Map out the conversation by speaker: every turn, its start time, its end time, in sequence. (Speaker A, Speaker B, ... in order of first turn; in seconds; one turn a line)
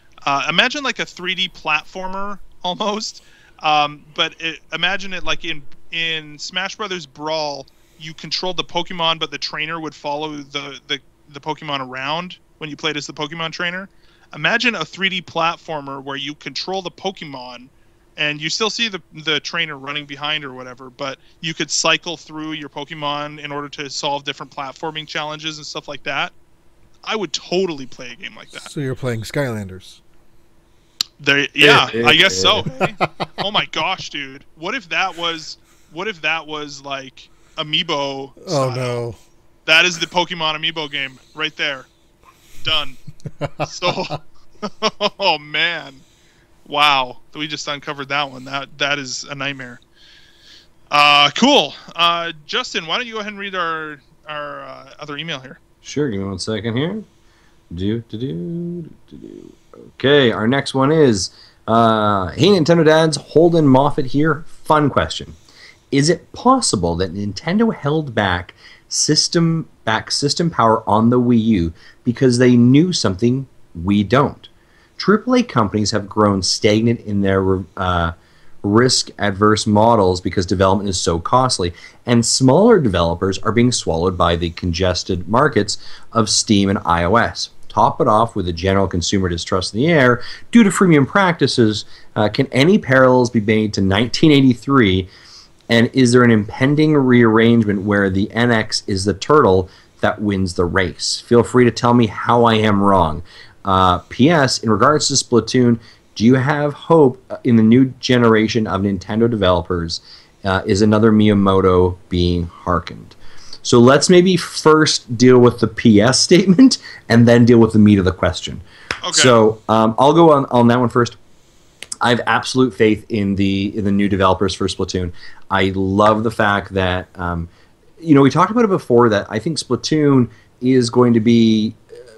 Speaker A: 0.2-26.3
Speaker A: 27.0-28.7
Speaker B: 28.5-30.0
Speaker A: 31.2-39.0
Speaker C: 31.6-32.7
Speaker B: 38.4-39.2
Speaker A: 39.6-41.9
Speaker A: 42.6-43.0
Speaker B: 43.4-44.1
Speaker A: 43.6-46.0
Speaker A: 46.6-49.8
Speaker A: 50.9-55.6
Speaker C: 55.9-57.1
Speaker C: 57.7-65.4
Speaker C: 65.9-95.1
Speaker C: 95.7-121.2
Speaker A: 119.0-119.4
Speaker C: 122.0-131.8